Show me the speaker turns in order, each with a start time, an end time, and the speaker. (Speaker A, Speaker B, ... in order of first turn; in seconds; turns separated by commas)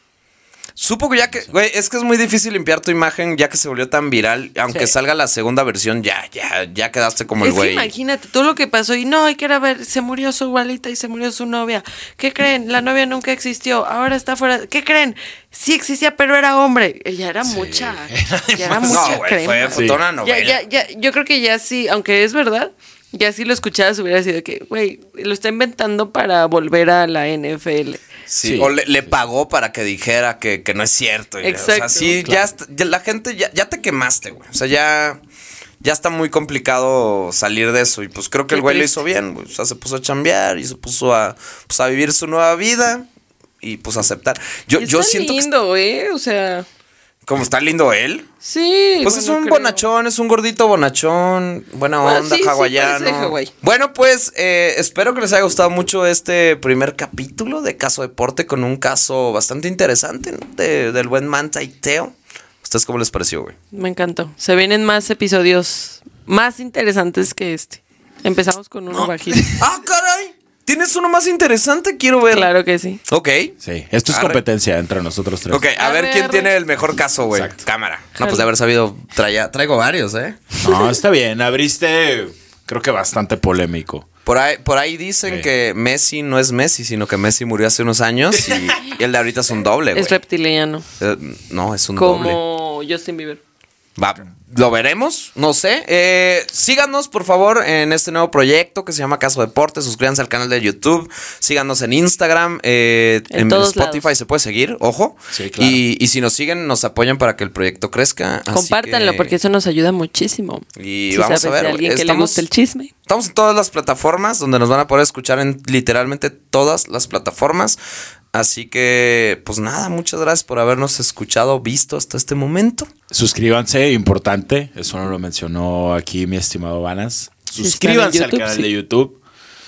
Speaker A: 0.8-7.9, Speaker B: 7.4-28.0, Speaker C: 17.4-19.2, Speaker A: 18.9-20.6, Speaker C: 19.7-20.0, Speaker A: 28.3-35.2, Speaker C: 28.4-29.2, Speaker B: 31.4-32.2, Speaker A: 35.8-43.1, Speaker B: 38.5-39.0, Speaker A: 43.6-45.5, Speaker B: 44.8-46.7, Speaker A: 47.3-48.3, Speaker B: 48.4-49.8, Speaker A: 49.0-63.6, Speaker B: 52.0-53.5, Speaker B: 63.7-69.6, Speaker A: 68.9-72.5, Speaker B: 72.3-73.0, Speaker A: 73.1-73.5, Speaker C: 73.6-75.6, Speaker A: 74.1-74.4, Speaker A: 75.5-80.4, Speaker B: 75.8-76.5, Speaker C: 77.3-77.6, Speaker B: 78.2-78.5, Speaker C: 80.6-84.1, Speaker A: 84.3-90.2, Speaker C: 88.4-88.8, Speaker B: 89.9-90.8, Speaker A: 91.0-92.4, Speaker B: 92.0-93.4, Speaker A: 94.0-109.4, Speaker B: 103.3-104.1, Speaker C: 105.3-105.8, Speaker B: 108.5-112.9, Speaker A: 110.8-112.5, Speaker A: 113.1-117.8, Speaker A: 118.3-122.9, Speaker C: 123.1-129.2, Speaker B: 127.6-128.7